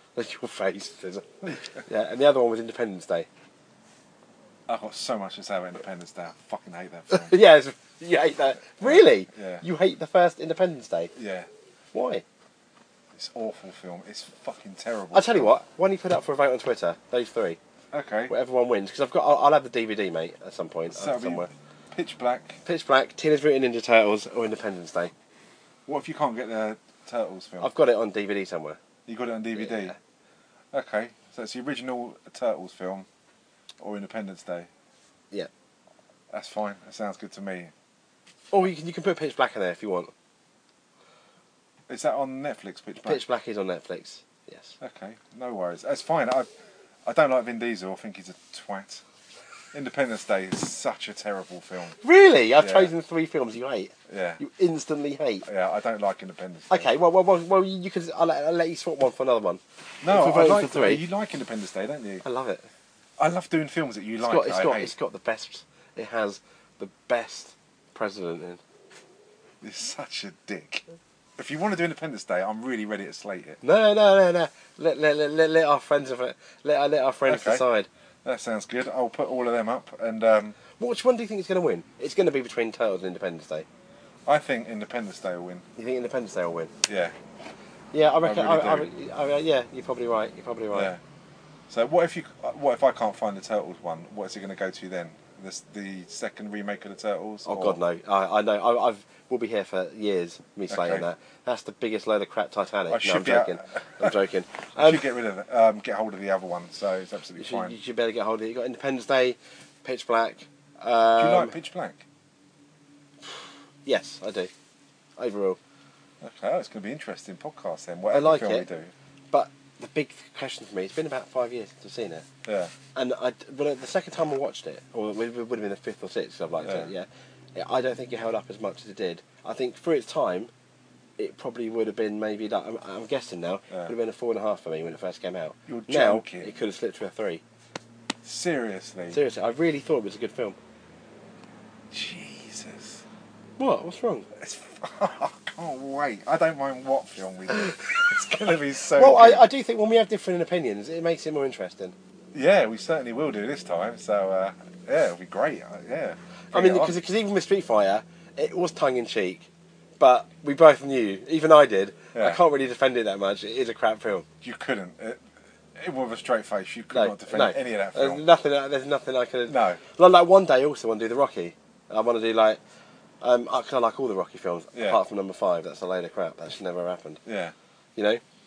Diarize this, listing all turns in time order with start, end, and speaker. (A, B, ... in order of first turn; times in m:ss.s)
0:00.2-0:03.3 A
0:04.7-0:07.4 B
0:07.1-0:11.1 A
0:08.8-0:09.6 B
0:11.2-0:11.5 B
0:11.9-0:12.2 A
0:13.1-0:15.5 B
0:15.1-0:17.6 A
0:17.9-0:18.3 B
0:18.3-0:21.5 A
0:20.9-0:22.6 B
0:22.6-0:25.1 A
0:25.9-0:27.7 B
0:27.6-0:28.8 A
0:29.1-0:30.0 B
0:29.6-0:30.0 A
0:30.7-0:33.1 B
0:33.8-0:34.7 B
0:36.3-0:37.7 B
0:38.5-0:40.1 A
0:41.9-0:43.2 B
0:43.0-0:44.8 A
0:44.8-0:46.5 B
0:47.0-0:49.0 B
0:49.7-0:52.0 B
0:52.0-0:55.5 A
0:52.6-0:52.9 B
0:54.1-0:54.4 B
0:55.4-0:56.9 B
0:56.7-1:01.0 A
1:00.0-1:02.2 B
1:02.2-1:02.7 A
1:03.2-1:04.9 B
1:04.2-1:08.6 A
1:09.6-1:10.8 B
1:11.4-1:13.6 B
1:13.6-1:17.9 A
1:17.3-1:17.6 B
1:18.2-1:20.6 B
1:20.8-1:23.7 A
1:24.3-1:25.6 B
1:25.8-1:26.7 A
1:26.8-1:27.2 B
1:27.9-1:30.9 A
1:28.2-1:28.9 B
1:30.7-1:31.0 B
1:31.7-1:37.8 B
1:37.5-1:45.0 A
1:40.7-1:41.1 B
1:42.9-1:44.2 B
1:44.8-1:47.8 B
1:47.4-1:51.6 A
1:51.2-1:52.0 B
1:53.2-1:54.5 A
1:55.2-1:55.6 A
1:56.2-1:58.9 B
1:58.1-1:58.7 A
1:59.3-2:02.3 A
2:02.4-2:02.7 B
2:02.9-2:10.5 A
2:06.6-2:06.9 B
2:11.2-2:17.4 A
2:15.7-2:16.5 B
2:18.2-2:19.2 B
2:19.1-2:20.6 A
2:21.9-2:23.0 B
2:23.6-2:24.3 A
2:24.4-2:29.4 B
2:28.9-2:32.0 A
2:32.3-2:37.0 B
2:36.5-2:39.5 A
2:40.0-2:44.3 A
2:42.1-2:42.4 B
2:44.4-2:45.2 B
2:45.8-2:48.2 B
2:46.9-2:52.6 A
2:49.5-2:49.8 B
2:53.2-2:57.2 A
2:54.8-2:55.0 B
2:57.3-2:57.6 B
2:58.0-2:58.2 A